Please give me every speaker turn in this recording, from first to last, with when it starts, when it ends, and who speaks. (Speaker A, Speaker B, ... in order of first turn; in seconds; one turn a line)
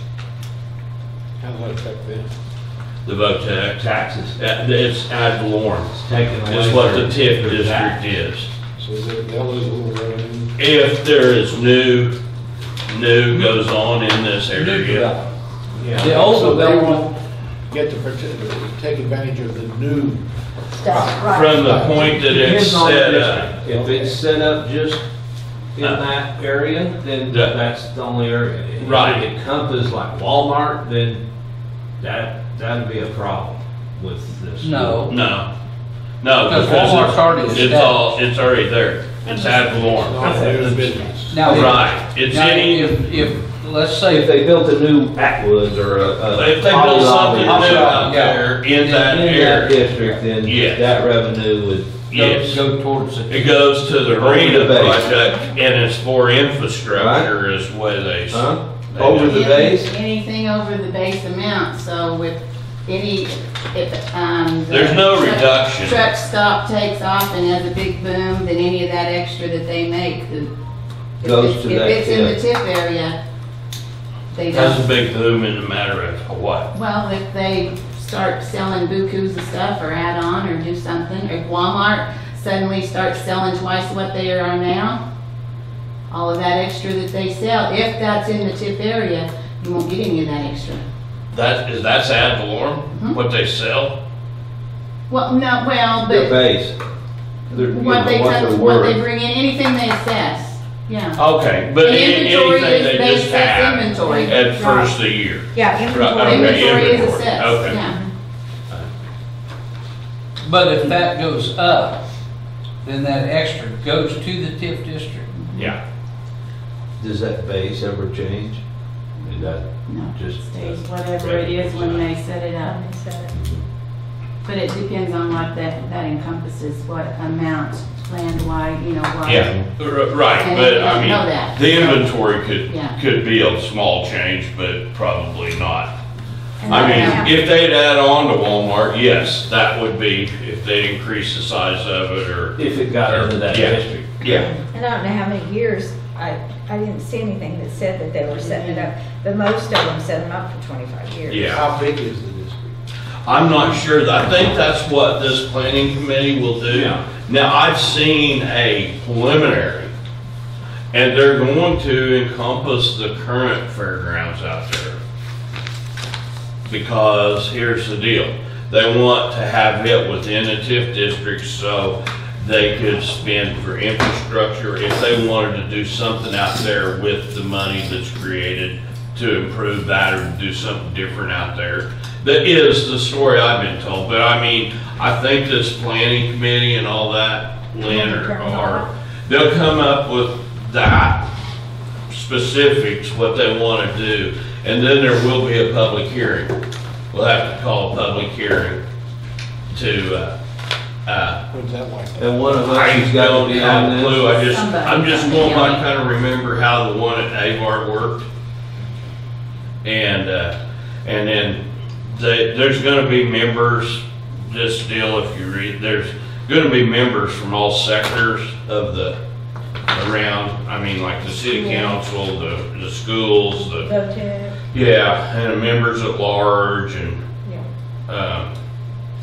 Speaker A: 1.4-2.3
Speaker B: 3.0-6.0
Speaker C: 3.9-4.3
Speaker C: 5.9-8.0
Speaker B: 6.5-8.5
Speaker A: 8.8-10.5
Speaker B: 10.6-12.1
Speaker B: 12.9-15.2
Speaker D: 14.5-15.2
Speaker C: 15.8-16.9
Speaker A: 15.8-20.2
Speaker D: 16.0-17.1
Speaker E: 20.7-22.2
Speaker A: 20.9-22.1
Speaker B: 21.2-23.5
Speaker C: 22.2-25.0
Speaker A: 23.6-24.2
Speaker C: 25.8-31.2
Speaker B: 27.3-27.6
Speaker B: 28.8-29.3
Speaker C: 32.0-35.1
Speaker D: 34.6-35.1
Speaker B: 35.1-35.5
Speaker B: 36.2-40.4
Speaker D: 36.5-38.2
Speaker A: 39.6-41.6
Speaker C: 40.2-41.1
Speaker D: 41.3-44.3
Speaker B: 41.4-43.0
Speaker C: 44.1-48.1
Speaker B: 46.3-49.8
Speaker D: 47.4-50.1
Speaker C: 49.0-52.0
Speaker B: 50.4-50.9
Speaker B: 52.1-52.6
Speaker D: 52.1-53.6
Speaker B: 53.3-59.5
Speaker C: 54.1-55.1
Speaker C: 56.9-57.3
Speaker C: 58.3-59.9
Speaker F: 59.2-70.5
Speaker B: 64.7-66.1
Speaker F: 71.2-73.2
Speaker C: 71.2-72.4
Speaker F: 74.3-74.8
Speaker B: 74.5-76.7
Speaker F: 76.7-85.0
Speaker F: 86.1-90.8
Speaker B: 91.3-93.9
Speaker F: 95.1-96.3
Speaker C: 96.0-96.8
Speaker C: 97.5-99.0
Speaker F: 97.5-101.2
Speaker B: 101.2-107.8
Speaker F: 101.8-104.4
Speaker E: 104.0-104.9
Speaker E: 105.5-107.0
Speaker F: 106.1-108.0
Speaker E: 107.7-108.0
Speaker D: 110.4-112.0
Speaker D: 112.8-115.3
Speaker F: 115.3-115.7
Speaker B: 115.5-115.8
Speaker C: 117.0-118.6
Speaker C: 119.2-122.1
Speaker F: 119.3-122.8
Speaker E: 122.6-123.3
Speaker C: 123.3-123.6
Speaker F: 124.5-129.6
Speaker B: 129.2-135.9
Speaker F: 130.4-132.1
Speaker F: 132.7-133.0
Speaker E: 136.6-137.3
Speaker F: 136.6-137.3
Speaker B: 136.7-144.5
Speaker C: 142.6-144.2
Speaker E: 144.3-151.6
Speaker F: 148.3-148.9
Speaker B: 151.3-151.6
Speaker A: 151.5-152.8
Speaker B: 153.2-159.9
Speaker C: 156.7-157.0
Speaker B: 160.9-165.0
Speaker B: 166.7-191.3
Speaker E: 187.8-188.9
Speaker B: 192.1-196.6
Speaker B: 197.1-198.8
Speaker B: 199.7-200.3
Speaker B: 201.1-201.4
Speaker A: 201.5-202.6
Speaker C: 202.2-204.3
Speaker B: 202.6-208.3
Speaker F: 204.1-205.8
Speaker B: 209.8-219.2
Speaker B: 219.9-223.9
Speaker E: 221.4-221.9
Speaker E: 223.6-224.6
Speaker B: 224.7-227.2
Speaker B: 228.1-228.5